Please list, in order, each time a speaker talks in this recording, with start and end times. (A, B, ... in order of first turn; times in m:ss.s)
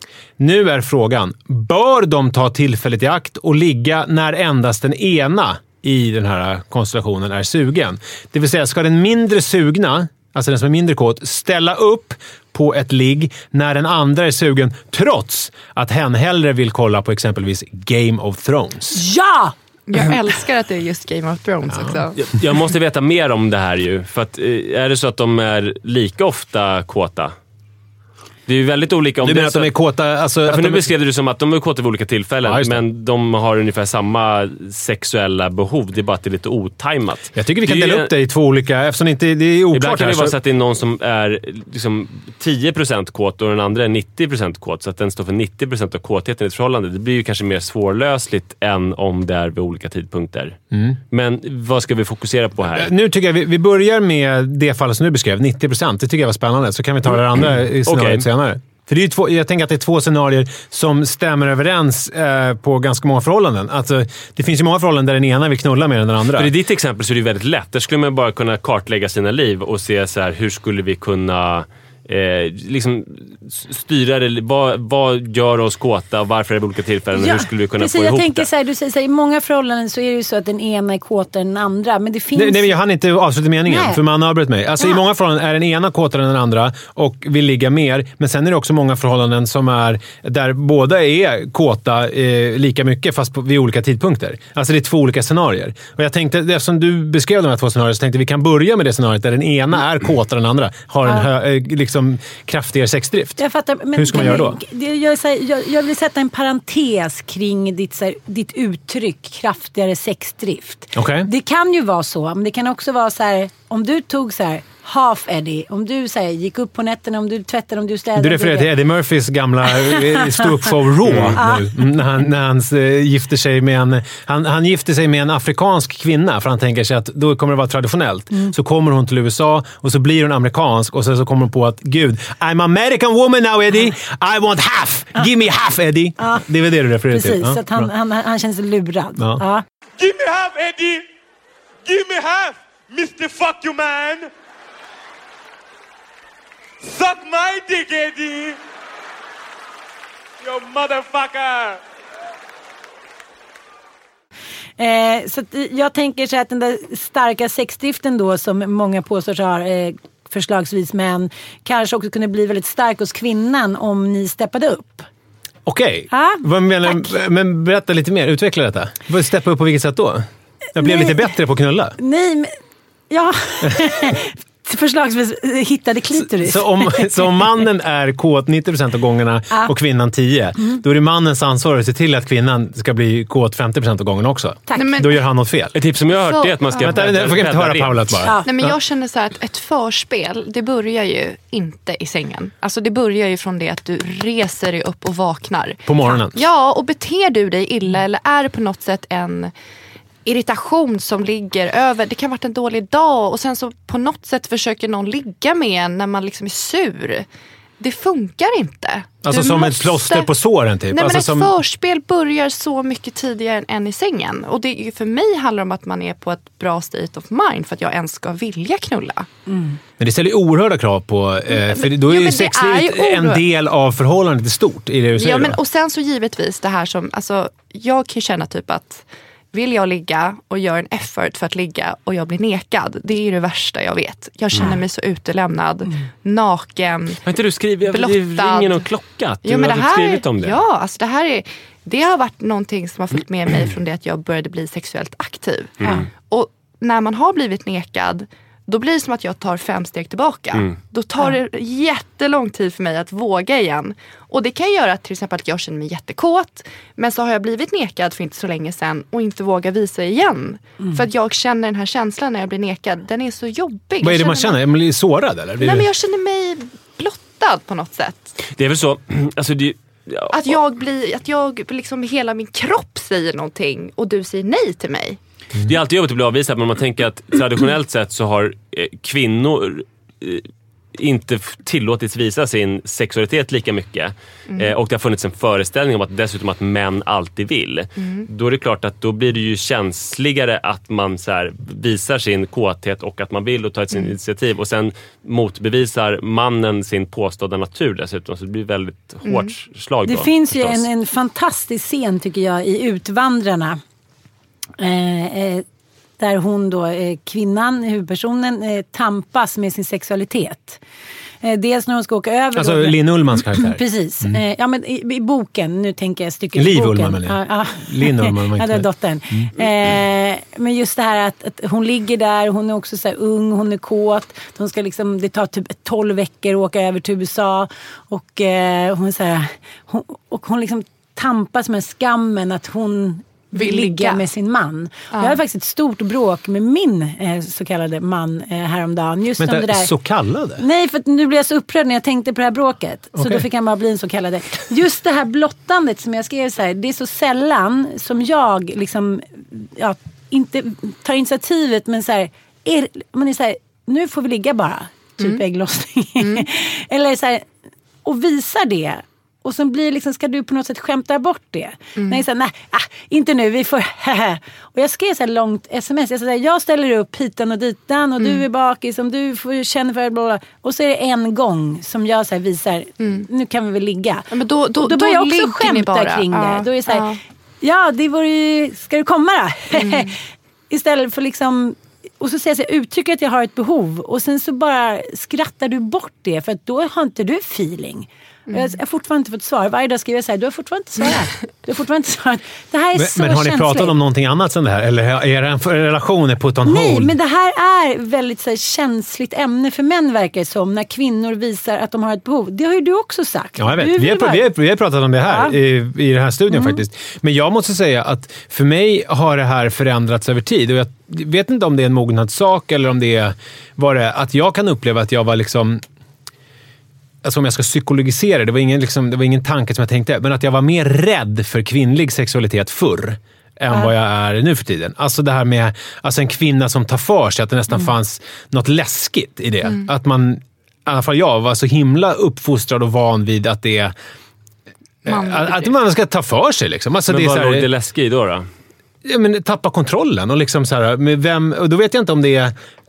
0:00.4-0:19.0 A
0:18.9-0:19.5 B
0:19.9-0:22.2 C
0:22.2-0:27.3 D
0:28.5-0:29.7 D
0:29.2-0:30.9 A
0:30.4-0:38.1 D
0:32.4-0:32.8 A
0:37.3-0:40.3 A
0:39.7-0:50.6 D
0:50.7-0:51.0 A
0:51.1-0:52.9 D
0:52.7-1:06.5 A
0:57.8-0:58.2 D
1:06.3-1:18.5 D
1:17.2-1:22.7 B
1:22.3-1:43.4 A
1:23.6-1:24.0 B
1:43.4-1:58.7 B
1:43.9-1:44.6 A
1:50.9-1:51.3 A
1:58.2-2:17.9 A
2:00.0-2:00.7 B
2:01.0-2:01.4 D
2:01.3-2:01.7 B
2:16.2-2:16.4 B
2:17.1-2:19.6 B
2:19.2-2:19.4 A
2:20.0-2:21.0 E
2:21.8-2:24.3 E
2:26.8-2:28.6 E
2:30.4-2:31.8 E
2:34.8-2:45.1 B
2:45.6-2:50.2 A
2:46.1-2:47.0 B
2:50.8-2:52.0 A
2:50.8-2:51.2 B
2:52.0-2:52.6 B
2:53.1-2:57.3 B
2:56.2-3:05.7 A
3:04.7-3:05.0 B
3:04.8-3:05.2 C
3:05.7-3:08.2 D
3:06.1-3:07.0 C
3:06.8-3:08.8 A
3:08.4-3:19.5 C
3:15.9-3:16.4 A
3:20.2-3:27.2 C
3:27.8-3:30.3 C
3:29.2-3:31.5 A
3:30.9-3:39.3 C
3:39.5-3:39.8 B
3:40.0-3:45.6 A
3:41.5-3:43.4 C
3:45.1-3:57.2 C
3:57.2-4:00.6 D
3:57.9-3:58.8 C
3:59.4-4:24.6 C
4:24.0-4:25.9 A
4:25.6-4:28.3 C
4:28.5-4:30.6 D
4:30.3-4:35.2 C
4:35.6-5:00.8 D
4:44.5-4:44.7 C
4:48.0-4:48.3 C
4:59.2-4:59.5 C
5:00.0-5:03.8 B
5:04.8-5:05.6 B
5:06.2-5:10.8 B
5:11.4-5:39.9 B
5:12.6-5:14.4 A
5:16.5-5:19.5 A
5:33.5-5:34.2 C
5:35.1-5:35.4 C
5:39.4-5:40.6 A
5:40.6-5:57.4 B
5:43.2-5:43.4 A
5:56.2-5:56.4 C
5:58.0-6:17.1 B
6:02.0-6:02.2 C
6:13.0-6:13.2 C
6:14.3-6:17.2 C
6:17.6-6:20.2 B
6:19.7-6:20.1 C
6:20.7-6:33.9 B
6:33.0-6:37.1 A
6:36.6-6:44.5 B
6:43.6-6:55.8 A
6:45.2-6:45.6 B
6:46.5-6:46.8 B
6:57.2-7:13.9 A
7:15.0-7:17.6 A
7:15.0-7:15.7 C
7:17.1-7:18.5 D
7:19.0-7:22.5 A